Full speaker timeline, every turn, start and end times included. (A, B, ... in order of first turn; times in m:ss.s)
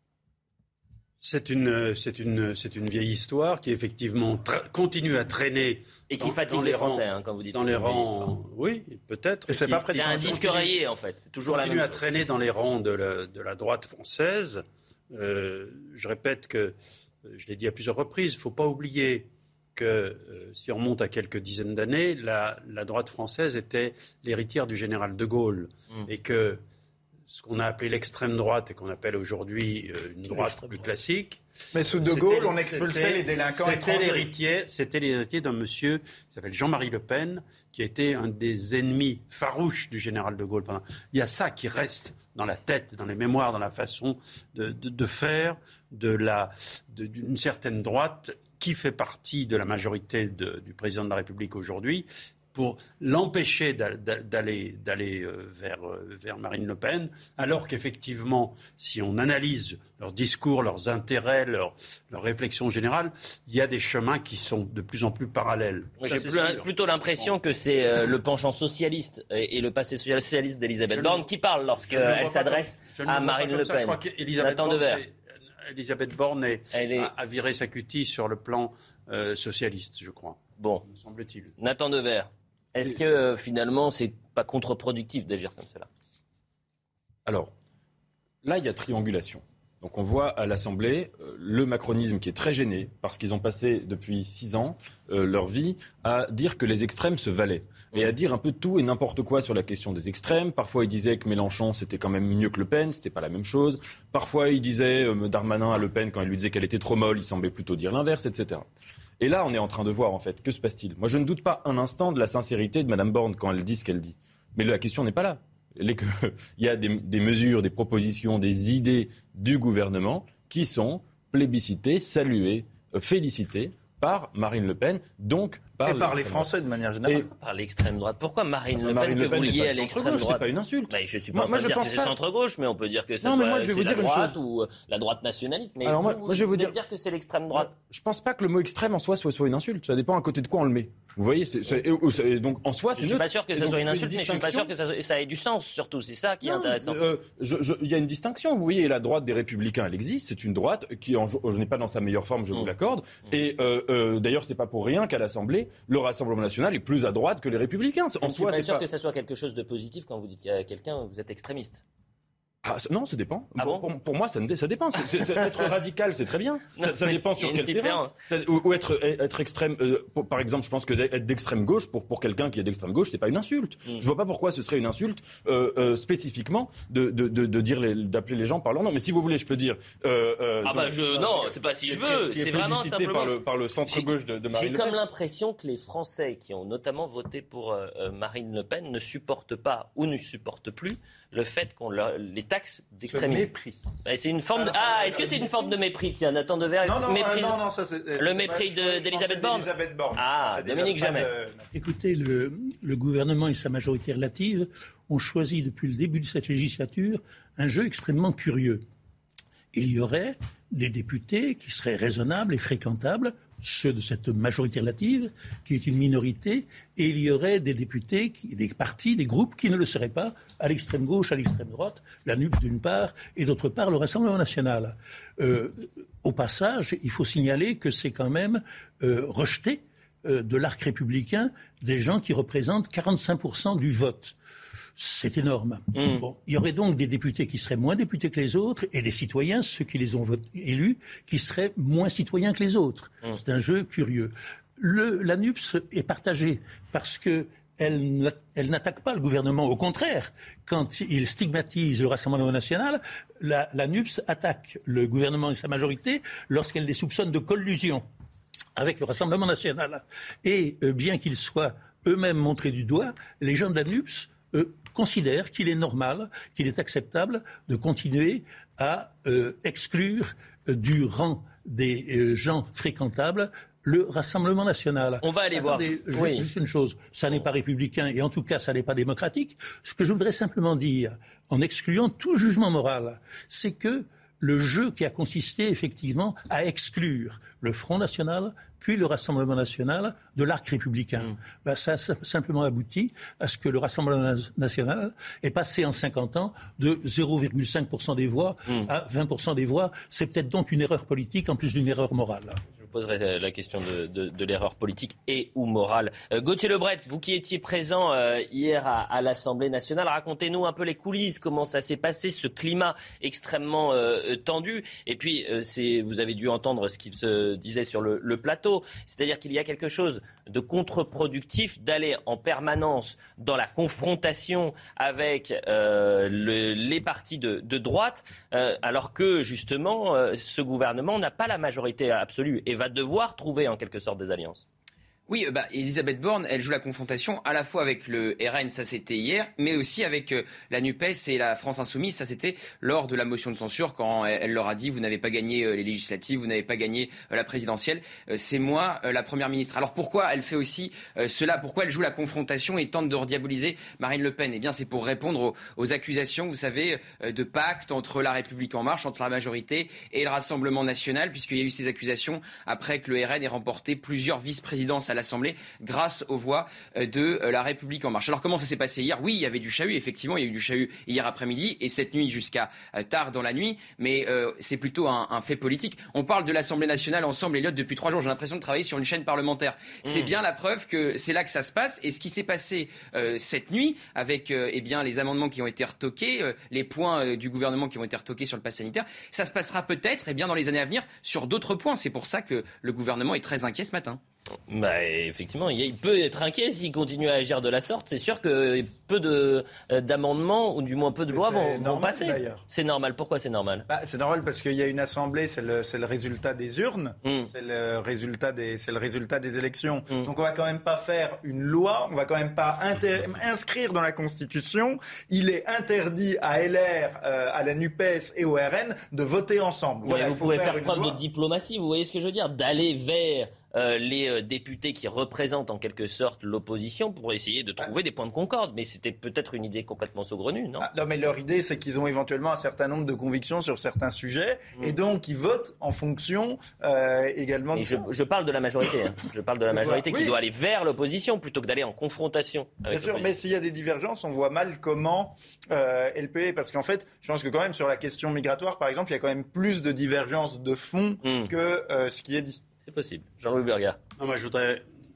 0:01.2-0:10.7 A
0:06.1-0:08.3 B
0:09.5-0:10.5 C
0:09.9-0:12.0 B
0:11.4-0:26.6 A
0:27.3-1:07.3 A
0:30.3-0:30.9 D
0:31.7-0:34.3 C
1:06.0-1:15.0 B
1:10.9-1:21.5 A
1:16.7-1:17.1 B
1:20.6-1:20.8 B
1:21.6-1:25.9 B
1:27.2-1:27.5 E
1:28.4-1:48.7 E
1:49.2-2:06.5 E
2:05.8-2:07.3 C
2:07.3-2:17.7 B
2:08.8-2:12.1 E
2:13.2-2:14.4 E
2:15.8-2:16.7 E
2:17.5-2:24.7 E
2:22.9-2:27.0 B
2:26.4-2:38.8 E
2:38.2-2:41.8 B
2:42.6-3:05.0 E
2:43.6-2:43.8 B
2:45.1-2:45.7 B
2:46.8-2:48.1 B
3:00.6-3:13.5 B
3:13.1-3:13.8 C
3:14.0-3:17.6 B
3:14.5-3:15.7 C
3:16.8-3:21.7 C
3:18.2-3:21.3 B
3:21.7-3:28.8 D
3:29.7-3:54.4 D
3:55.0-4:18.0 D
3:55.9-3:56.2 B
4:18.8-5:02.6 D
4:35.2-4:36.4 B
5:02.8-5:34.6 B
5:35.3-6:34.2 F
6:20.0-6:20.3 B
6:34.7-6:43.9 B
6:41.3-6:42.6 C
6:43.9-7:01.2 C
6:47.2-6:47.5 B
7:00.0-7:10.9 B
7:10.8-7:18.0 C
7:17.7-7:23.3 B
7:19.7-7:20.3 C
7:22.9-7:32.6 C
7:31.2-7:31.5 B
7:32.8-7:34.0 B
7:34.2-7:34.8 A